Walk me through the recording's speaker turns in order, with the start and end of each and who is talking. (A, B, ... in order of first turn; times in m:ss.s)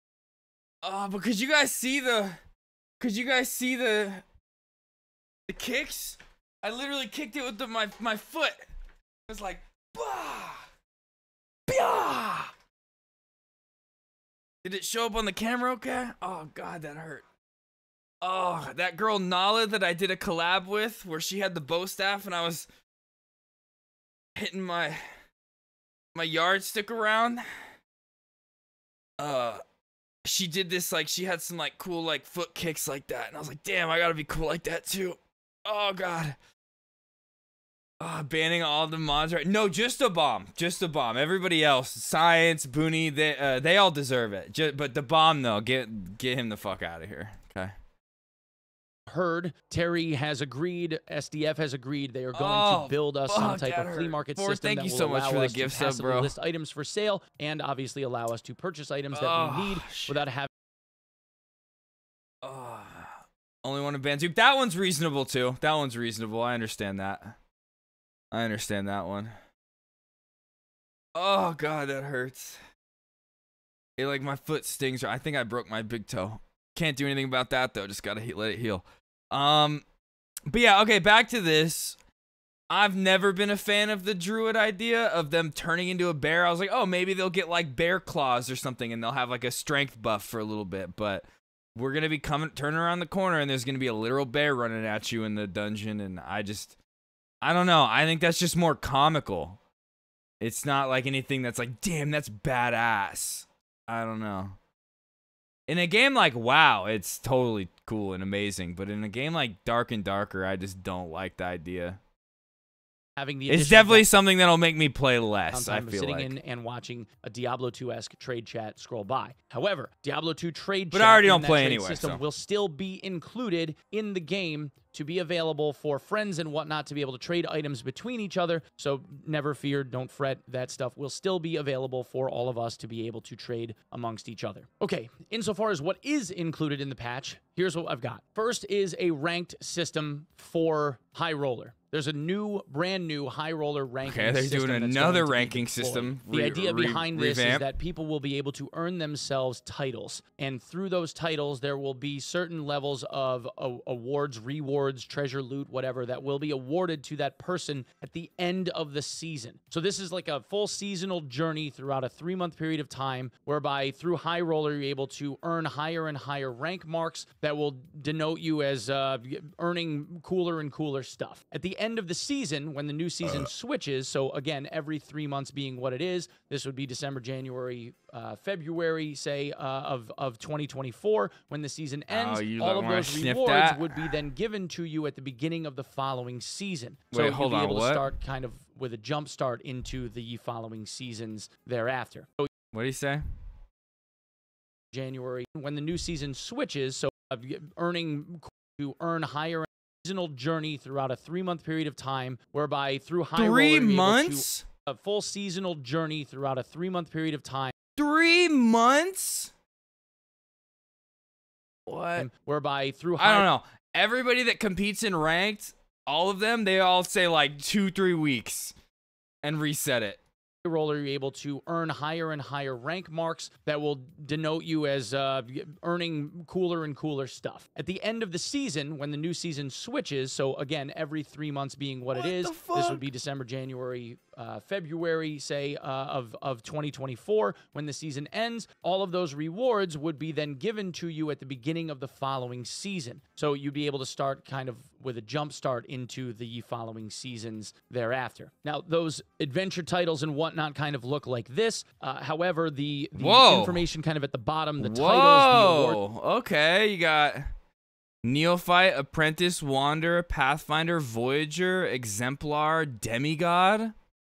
0:00.8-0:02.4 A
0:03.0-0:04.2 A
0:05.5-0:08.6 A
0:09.3-0:10.7 A
0:11.7-0:12.5 A
0:14.6-0:17.2 A
0:18.2-0:22.7 A
0:24.4-0:25.1 A
0:26.1-0:27.4 A
0:29.2-0:29.6 A
0:30.2-0:36.4 A
0:38.0-0:47.7 A
0:49.1-1:00.5 B
0:52.3-0:56.3 A
0:59.1-1:00.2 A
1:02.4-1:07.4 A
1:08.3-1:09.3 A
1:11.1-1:12.6 A
1:14.0-1:19.8 A
1:20.5-1:22.0 A
1:22.7-1:36.7 A
1:37.4-1:39.6 A
1:40.4-1:44.6 A
1:45.7-1:52.0 A
1:53.2-1:54.0 B
1:53.5-1:56.3 A
1:55.5-3:12.5 B
2:00.9-2:02.2 A
2:24.0-2:27.7 A
3:02.1-3:04.1 A
3:07.1-3:08.1 A
3:12.7-3:13.2 A
3:14.9-3:27.7 B
3:23.4-3:24.6 A
3:28.0-3:29.5 A
3:31.9-3:32.3 A
3:32.2-3:33.5 B
3:33.2-3:38.7 A
3:39.4-3:40.2 A
3:40.6-4:16.0 B
3:52.1-3:53.0 A
4:13.2-4:13.9 A
4:14.8-4:17.5 A
4:18.2-4:23.9 A